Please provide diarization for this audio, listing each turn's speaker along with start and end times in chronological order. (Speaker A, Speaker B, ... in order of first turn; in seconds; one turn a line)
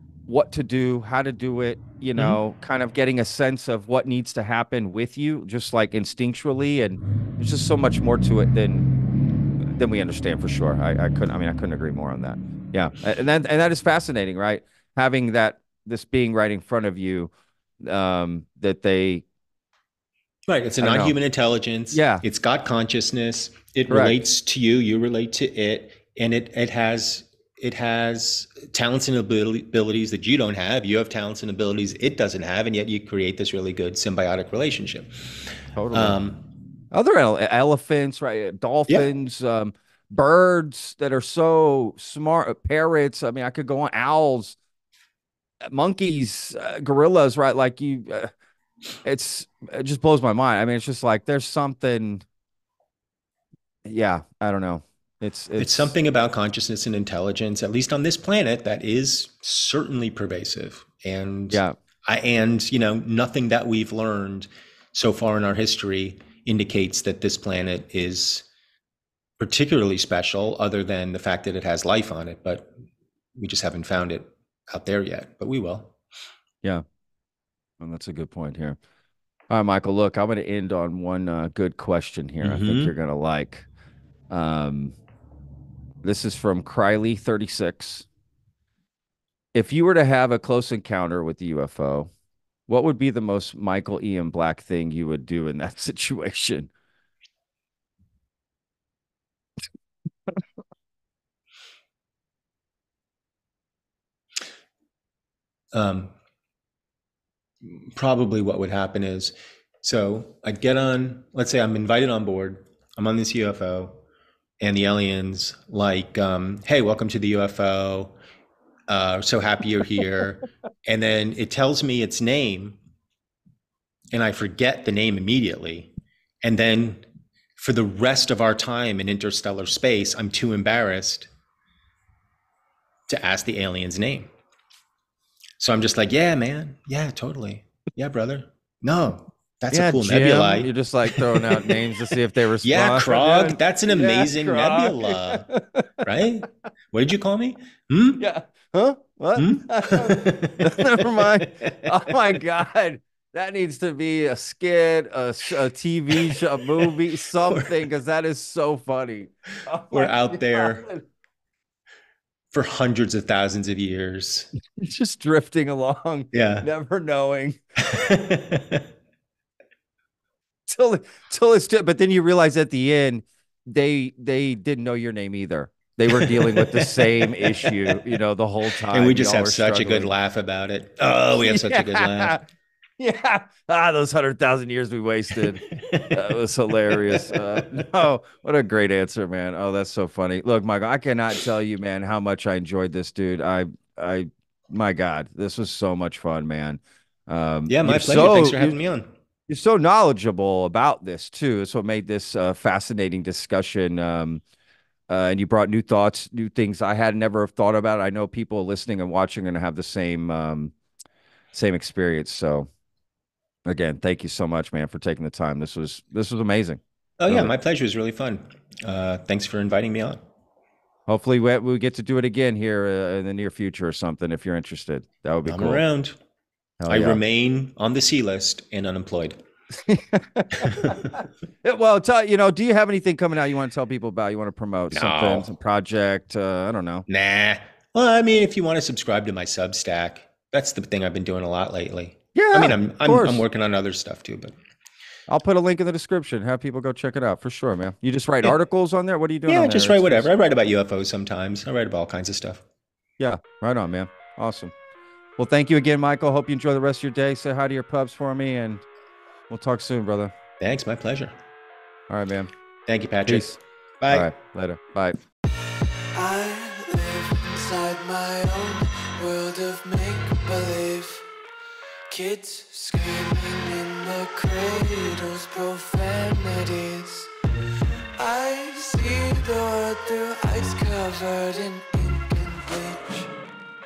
Speaker A: 0.3-8.9
Speaker A: 9.7-17.3
Speaker A: 17.8-19.2
Speaker B: 20.5-36.5
Speaker A: 20.8-21.2
Speaker A: 21.9-22.2
Speaker A: 23.9-24.2
Speaker A: 35.7-36.2
Speaker A: 36.9-44.5
Speaker A: 45.6-48.3
Speaker A: 49.0-52.2
Speaker A: 53.8-55.9
Speaker B: 55.6-68.5
Speaker A: 61.5-61.8
Speaker B: 69.4-72.7
Speaker B: 73.3-75.9
Speaker A: 77.8-78.8
Speaker A: 79.5-83.7
Speaker B: 82.4-82.9
Speaker A: 84.3-85.0
Speaker A: 86.0-88.0
Speaker A: 89.5-92.1
Speaker A: 92.7-96.7
Speaker B: 105.7-106.1
Speaker B: 107.6-114.0
Speaker B: 114.6-118.2
Speaker B: 118.9-122.8
Speaker B: 124.1-127.0
Speaker B: 127.6-131.3
Speaker B: 133.1-134.3
Speaker B: 135.6-141.8
Speaker A: 139.7-146.0
Speaker B: 142.6-145.5
Speaker B: 146.0-148.2
Speaker A: 148.2-161.0
Speaker B: 149.3-152.4
Speaker B: 156.1-156.9
Speaker B: 159.9-160.9
Speaker B: 162.5-164.5
Speaker A: 164.8-167.6
Speaker B: 166.3-166.7
Speaker B: 167.8-168.9
Speaker A: 170.7-180.1
Speaker B: 176.1-178.0
Speaker B: 178.9-182.4
Speaker A: 181.4-182.4
Speaker A: 183.0-198.8
Speaker B: 185.4-186.3
Speaker B: 186.9-187.9
Speaker B: 197.7-199.1
Speaker A: 199.5-204.4
Speaker A: 205.1-210.7
Speaker A: 211.5-212.7
Speaker A: 213.7-217.5
Speaker B: 217.2-220.2
Speaker A: 221.1-225.8
Speaker B: 225.5-226.2
Speaker A: 226.8-227.2
Speaker B: 226.9-229.4
Speaker A: 229.9-237.1
Speaker B: 230.5-231.1
Speaker B: 234.9-235.5
Speaker B: 237.1-244.6
Speaker A: 242.3-243.4
Speaker A: 245.3-250.3
Speaker B: 249.4-252.6
Speaker A: 253.2-254.7
Speaker A: 255.4-258.8
Speaker A: 259.5-260.3
Speaker B: 260.6-261.3
Speaker A: 262.1-262.5
Speaker B: 262.9-264.3
Speaker A: 263.2-263.6
Speaker A: 264.1-265.2
Speaker C: 266.1-271.2
Speaker C: 272.1-277.3
Speaker C: 278.2-283.3